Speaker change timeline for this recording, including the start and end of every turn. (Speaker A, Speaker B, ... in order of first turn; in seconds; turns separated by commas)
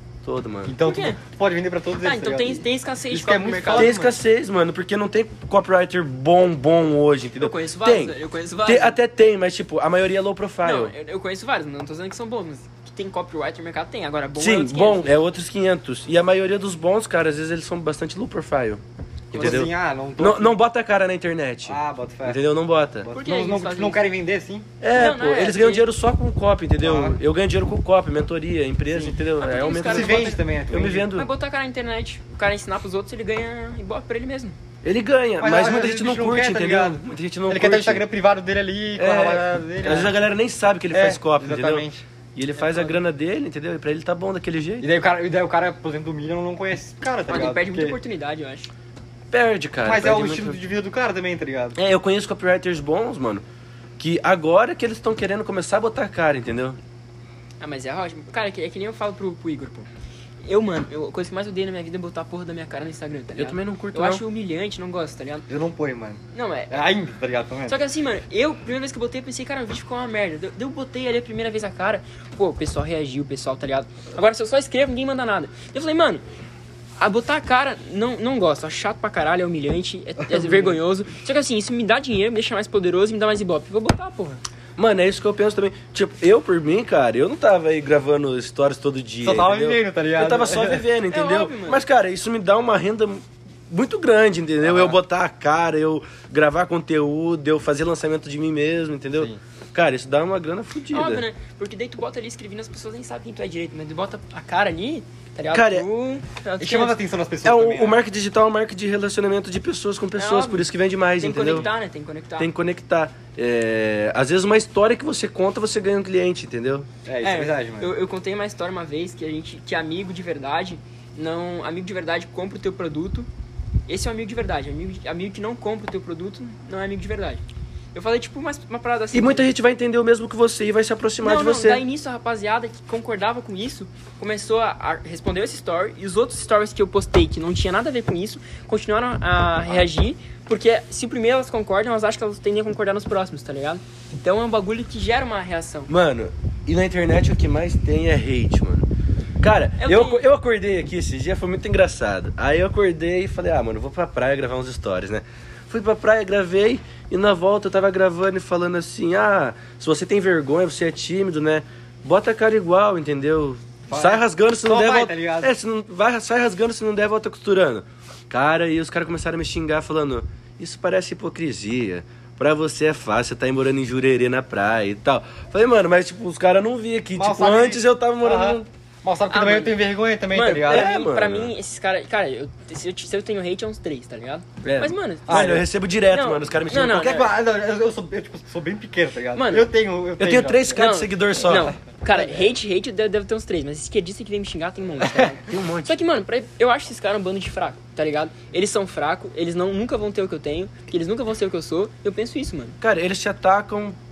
Speaker A: 0.2-0.7, Speaker B: 0.6-4.1, Speaker C: 0.8-1.2, Speaker C: 2.0-4.0, Speaker A: 3.7-10.9, Speaker C: 7.4-9.0, Speaker C: 10.6-15.2, Speaker A: 14.4-23.1, Speaker B: 19.3-20.6, Speaker B: 21.6-22.4, Speaker B: 23.1-24.7, Speaker C: 23.1-24.1, Speaker A: 24.8-31.3, Speaker C: 24.9-25.9, Speaker B: 26.8-27.2, Speaker C: 29.4-30.4, Speaker B: 29.8-31.1, Speaker C: 31.1-34.6, Speaker A: 34.8-38.0, Speaker B: 35.4-40.2, Speaker A: 39.0-44.9, Speaker B: 40.9-42.0, Speaker C: 42.6-43.0, Speaker B: 44.8-48.0, Speaker C: 47.3-48.7, Speaker A: 49.3-50.6, Speaker B: 49.8-51.8, Speaker A: 51.8-53.4, Speaker A: 54.0-56.8, Speaker C: 57.6-59.9, Speaker C: 60.4-65.5, Speaker A: 63.4-64.2, Speaker B: 65.5-67.8, Speaker C: 66.3-66.8, Speaker C: 67.7-76.2, Speaker C: 77.0-84.4, Speaker B: 80.3-80.8, Speaker A: 84.8-101.2, Speaker B: 89.2-90.8, Speaker C: 91.1-91.8, Speaker C: 100.9-107.0, Speaker A: 105.5-105.9, Speaker B: 106.6-108.0, Speaker A: 107.4-111.7, Speaker C: 110.2-110.7, Speaker C: 111.2-112.5, Speaker A: 112.4-116.9, Speaker B: 117.0-117.9, Speaker C: 117.2-123.3, Speaker C: 123.9-127.4, Speaker C: 127.9-129.5, Speaker A: 129.1-131.8, Speaker C: 131.2-145.9, Speaker A: 145.9-148.9, Speaker A: 149.4-178.6, Speaker C: 149.8-150.2, Speaker B: 163.9-165.5, Speaker B: 177.1-180.9, Speaker C: 179.3-187.3, Speaker A: 180.7-181.5, Speaker A: 184.6-187.3, Speaker B: 185.3-185.7, Speaker B: 186.9-190.8, Speaker C: 189.3-189.7, Speaker A: 190.2-191.7, Speaker C: 190.7-202.8, Speaker A: 195.4-196.0, Speaker A: 202.8-204.0